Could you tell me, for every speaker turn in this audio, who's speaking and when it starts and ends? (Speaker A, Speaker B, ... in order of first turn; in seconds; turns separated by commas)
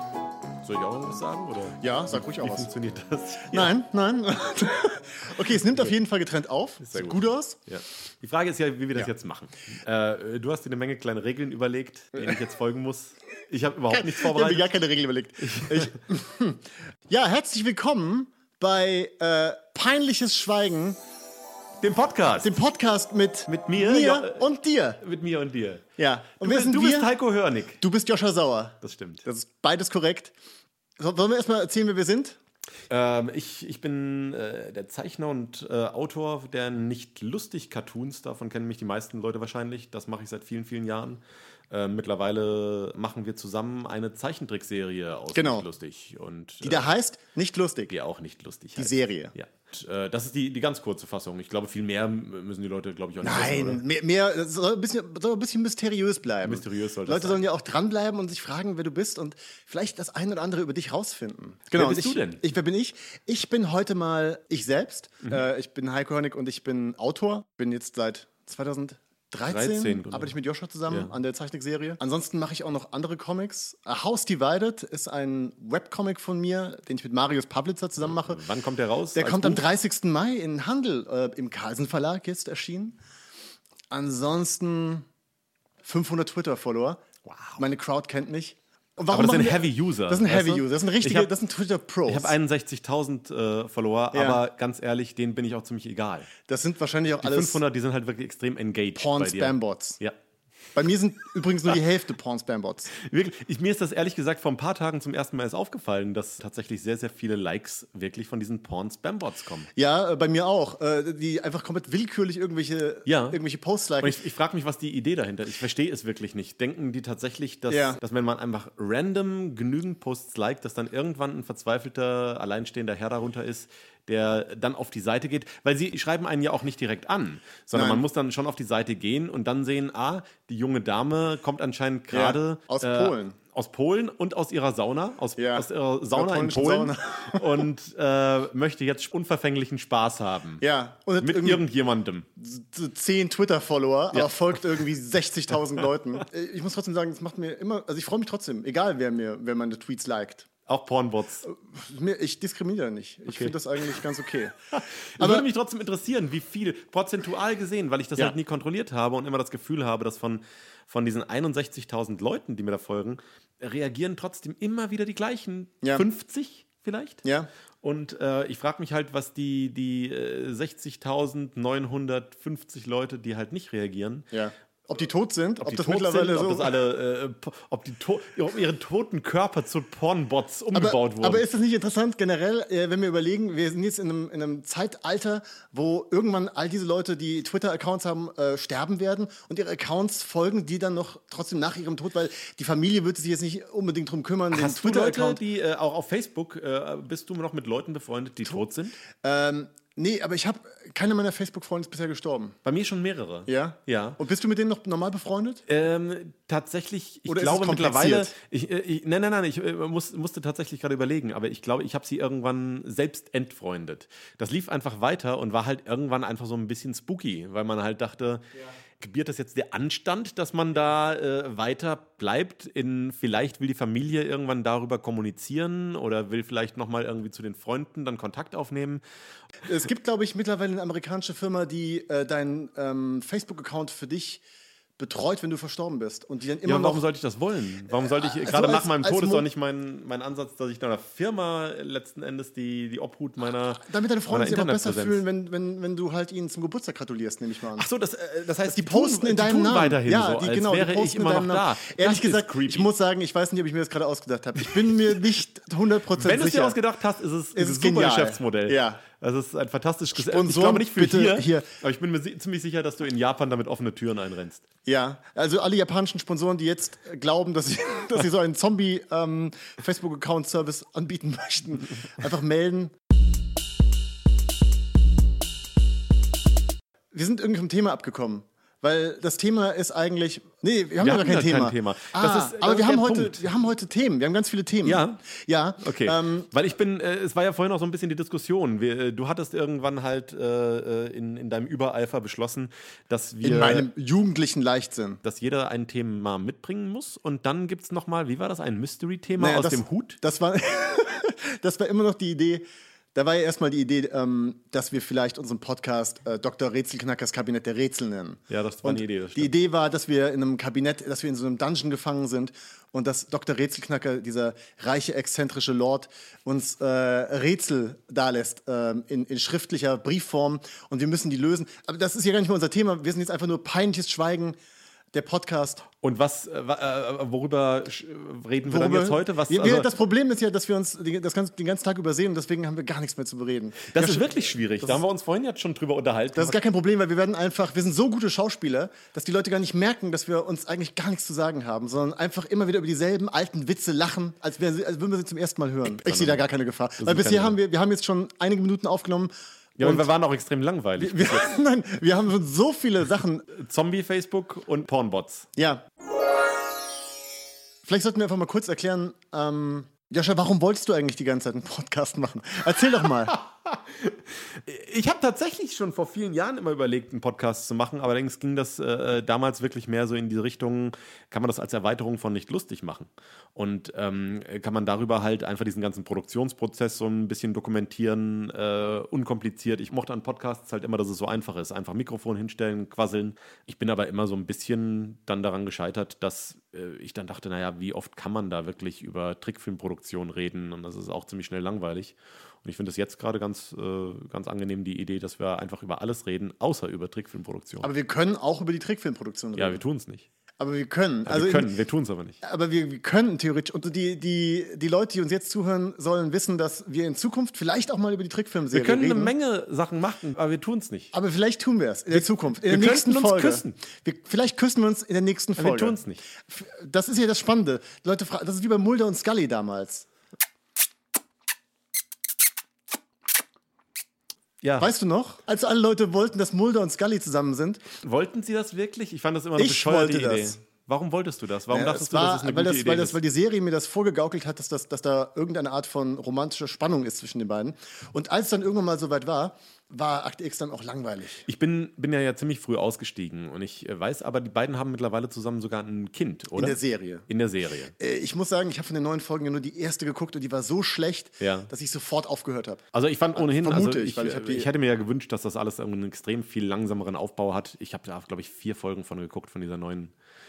Speaker A: 0.6-3.7, Speaker B: 1.8-2.7, Speaker B: 3.5-7.6, Speaker A: 6.8-14.7, Speaker B: 13.9-21.0, Speaker A: 15.4-15.9, Speaker A: 21.8-22.6, Speaker B: 22.4-25.0, Speaker A: 23.5-24.5, Speaker A: 25.0-25.9, Speaker B: 26.0-27.1, Speaker A: 26.4-27.8, Speaker B: 27.8-30.3, Speaker A: 28.8-29.2, Speaker B: 31.0-32.4, Speaker A: 32.9-46.9, Speaker B: 45.3-45.6, Speaker B: 46.6-47.9, Speaker A: 47.9-53.8, Speaker B: 48.8-49.3, Speaker B: 53.2-78.4, Speaker A: 56.4-57.4, Speaker A: 61.7-62.4, Speaker A: 69.5-70.3, Speaker A: 70.9-71.1, Speaker A: 78.0-79.6, Speaker B: 79.1-83.0, Speaker B: 83.9-85.1, Speaker B: 85.8-87.0, Speaker A: 87.3-87.6, Speaker B: 87.6-92.3, Speaker A: 89.1-91.3, Speaker A: 92.0-96.3, Speaker B: 94.1-94.4, Speaker B: 96.5-97.6, Speaker A: 97.2-100.1, Speaker B: 99.0-100.0, Speaker B: 100.7-102.9, Speaker A: 102.9-109.7, Speaker B: 109.7-114.2, Speaker A: 113.0-113.4, Speaker A: 114.0-140.6, Speaker B: 117.7-118.0, Speaker B: 127.7-128.0, Speaker B: 132.1-133.4, Speaker B: 135.3-137.6, Speaker B: 140.6-141.6, Speaker A: 141.2-142.3, Speaker B: 142.4-150.5, Speaker A: 150.7-151.4, Speaker B: 151.4-154.6, Speaker A: 153.3-153.6, Speaker A: 154.7-167.2, Speaker B: 155.2-155.5, Speaker B: 167.2-167.5, Speaker A: 167.8-174.3, Speaker B: 174.3-176.7, Speaker A: 175.6-181.4, Speaker B: 180.7-195.4, Speaker A: 194.5-199.0, Speaker B: 199.2-202.6, Speaker A: 202.6-204.2, Speaker B: 203.5-205.6, Speaker A: 205.7-218.5, Speaker B: 207.3-208.3, Speaker A: 219.0-229.0, Speaker B: 229.6-234.4, Speaker B: 235.0-237.0, Speaker A: 236.6-245.2, Speaker B: 237.9-239.4, Speaker B: 243.8-247.8, Speaker A: 247.8-252.9, Speaker B: 248.7-256.8, Speaker A: 256.1-264.6, Speaker B: 257.5-259.0, Speaker B: 260.1-261.7, Speaker B: 264.9-272.9, Speaker B: 277.1-286.5, Speaker A: 281.0-283.5, Speaker A: 284.8-285.2, Speaker A: 285.8-293.9, Speaker B: 293.4-295.2, Speaker A: 295.2-300.2, Speaker B: 299.4-324.6, Speaker A: 308.5-309.5, Speaker B: 325.1-325.8, Speaker A: 326.0-329.9, Speaker B: 328.7-335.0, Speaker A: 333.9-336.6, Speaker B: 336.4-350.1, Speaker A: 345.9-346.4, Speaker A: 347.0-347.6, Speaker A: 349.8-351.5, Speaker B: 351.0-353.5, Speaker A: 353.5-355.5, Speaker B: 355.6-355.8, Speaker B: 357.8-363.4, Speaker A: 363.3-397.9, Speaker B: 397.8-399.8, Speaker A: 399.6-400.2, Speaker B: 400.6-401.7, Speaker A: 401.2-402.4, Speaker B: 402.4-409.3, Speaker A: 408.7-411.1, Speaker B: 411.1-420.1, Speaker A: 412.1-413.8, Speaker A: 415.6-416.2, Speaker A: 424.6-424.9, Speaker B: 424.8-427.8, Speaker A: 428.0-433.2, Speaker B: 429.6-430.6, Speaker B: 431.7-441.5, Speaker A: 441.5-447.9, Speaker B: 446.6-447.3, Speaker B: 448.0-452.8, Speaker A: 451.4-451.7, Speaker A: 452.9-460.1, Speaker B: 453.4-454.7